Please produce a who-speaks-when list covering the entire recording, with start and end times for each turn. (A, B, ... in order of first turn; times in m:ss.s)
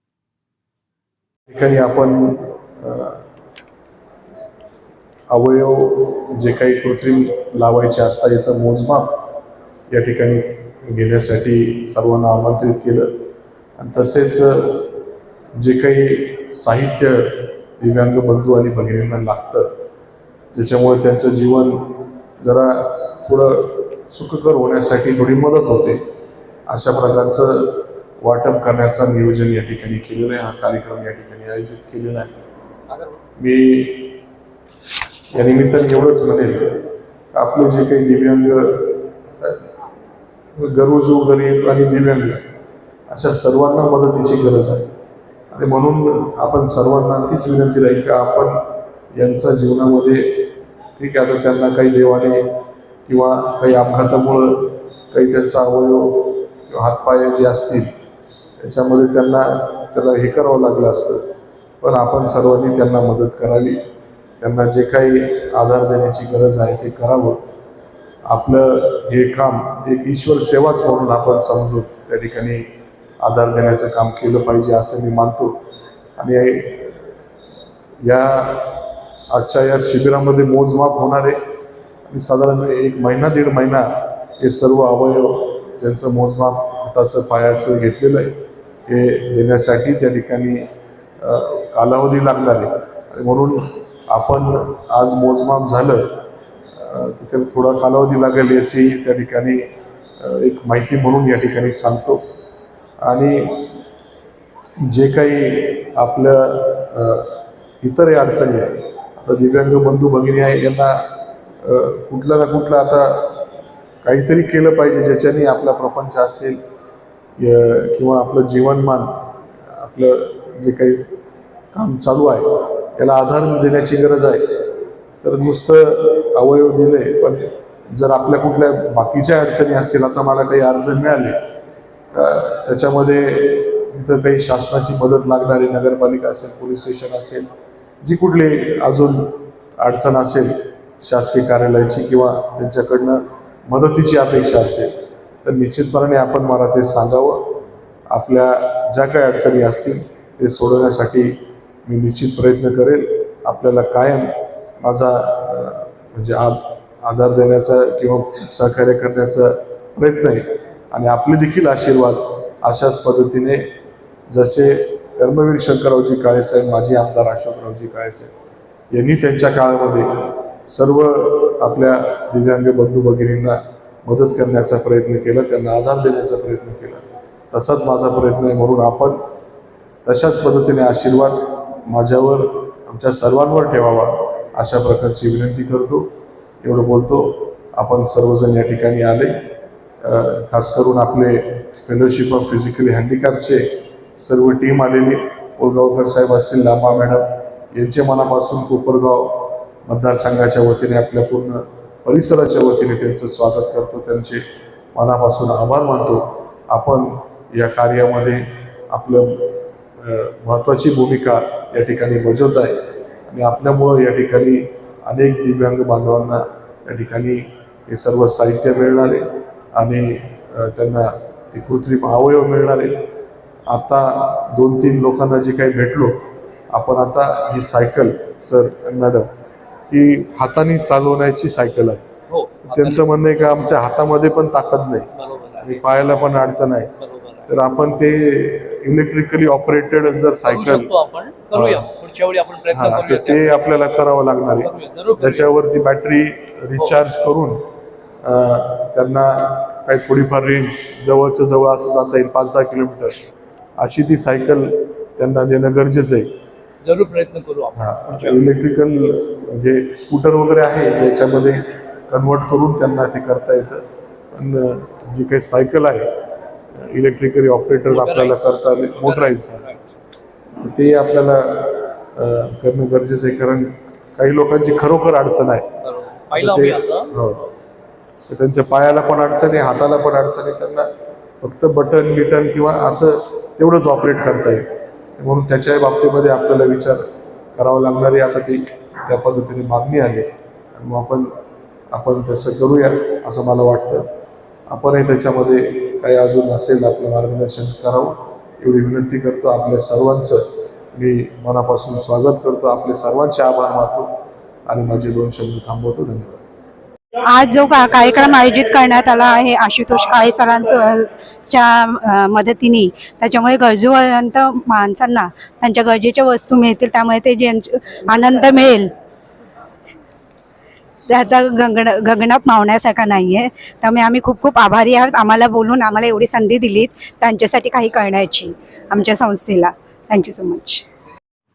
0:01.5-0:03.2 A
0:05.3-0:09.3 A
0:09.9-0:13.2 A
0:13.8-0:19.7 A
0:20.5-0:26.0 A
0:26.7-0:32.5 A
0:33.4-0:34.2 A
0:35.3-0:39.7 A
0:40.6-0:42.4 A
0:43.1-0:44.9 A
0:45.5-0:57.9 A
0:58.6-1:01.3 A
1:01.8-1:03.8 A
1:04.4-1:07.4 A
1:08.3-1:12.6 A
1:13.2-1:15.6 A
1:16.2-1:17.1 A
1:18.0-1:21.4 A
1:22.1-1:28.4 A
1:28.9-1:30.7 A
1:31.2-1:39.7 A
1:40.2-1:42.2 A
1:43.0-1:43.8 A
1:44.8-1:51.1 A
1:51.6-1:53.5 A
1:54.0-1:56.6 A
1:57.4-2:01.1 A
2:01.7-2:11.4 A
2:12.1-2:17.5 A
2:18.0-2:43.7 A
2:44.3-2:48.3 A
2:48.9-2:59.2 A
3:00.0-3:06.1 A
3:06.6-3:09.4 A
3:10.0-3:13.6 A
3:14.2-3:24.4 A
3:24.9-3:43.1 A
3:43.7-3:49.3 A
3:49.9-3:52.0 A
3:52.3-3:53.1 B
3:52.7-3:55.1 A
3:55.1-3:56.0 B
3:55.6-3:56.9 A
3:57.0-3:57.5 B
3:57.5-4:00.9 A
4:00.4-4:03.7 B
4:01.5-4:01.9 A
4:02.7-4:07.6 A
4:04.5-4:05.5 B
4:06.8-4:07.0 B
4:08.2-4:16.3 A
4:16.8-4:18.4 B
4:17.8-4:26.2 A
4:26.7-4:29.7 A
4:27.8-4:29.9 B
4:30.6-4:35.7 A
4:35.8-4:37.2 B
4:36.3-4:37.5 A
4:38.3-4:40.9 A
4:41.4-4:51.3 A
4:51.9-4:54.1 A
4:54.7-5:00.4 A
5:00.9-5:04.1 A
5:04.7-5:06.4 A
5:07.2-5:18.9 C
5:21.1-5:30.8 C